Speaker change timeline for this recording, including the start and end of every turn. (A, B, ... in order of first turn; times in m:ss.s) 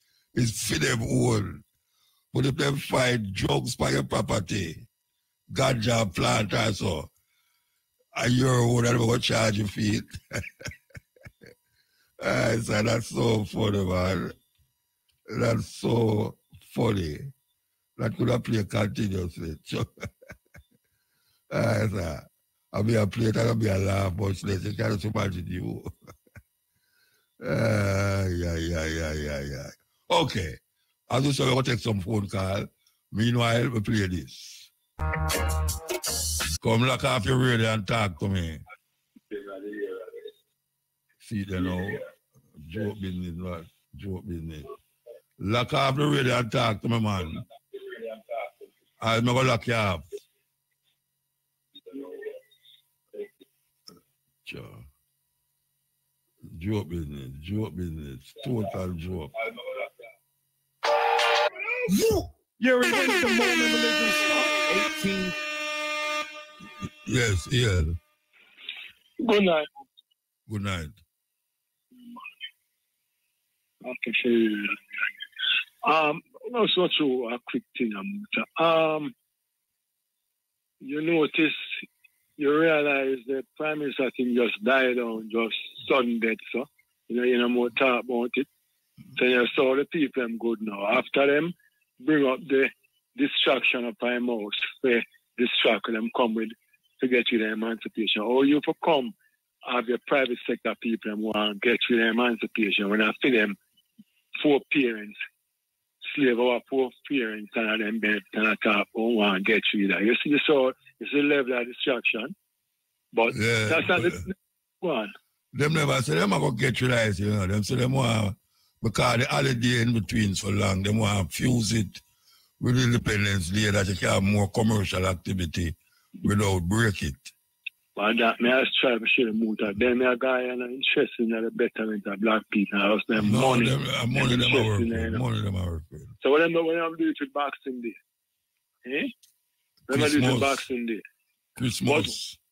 0:00.3-0:01.6 A
0:02.3-0:04.8 A
0:05.5-0:07.1 A
0:08.1-0:10.4 A
0:12.2-0:14.3 A
0:15.3-0:17.3 A
0:18.0-0:20.1 A
0:21.5-0:25.9 A
0:27.4-0:34.7 A
0:36.6-0:38.6 A
0:41.2-0:42.0 A
0:42.6-0:44.7 A
0:45.4-0:47.4 A
0:49.0-0:50.0 A
0:54.4-0:54.8 A
0:56.5-0:59.3 A
1:01.9-1:05.3 B
1:07.0-1:08.0 A
1:09.2-1:09.7 C
1:10.5-1:11.0 A
1:13.8-1:14.8 C
1:15.8-1:19.1 C
1:20.8-1:21.7 C
1:22.4-1:28.5 C
1:29.2-1:43.6 C
1:44.4-1:45.2 C
1:46.1-1:52.3 C
1:53.1-1:55.1 C
1:53.3-1:54.2 A
1:55.5-2:02.0 A
2:02.6-2:07.3 A
2:08.0-2:15.2 C
2:13.2-2:16.1 A
2:16.2-2:18.0 C
2:18.8-2:19.1 C
2:19.9-2:20.6 A
2:19.9-2:21.0 C
2:21.6-2:22.4 A
2:21.9-2:22.1 C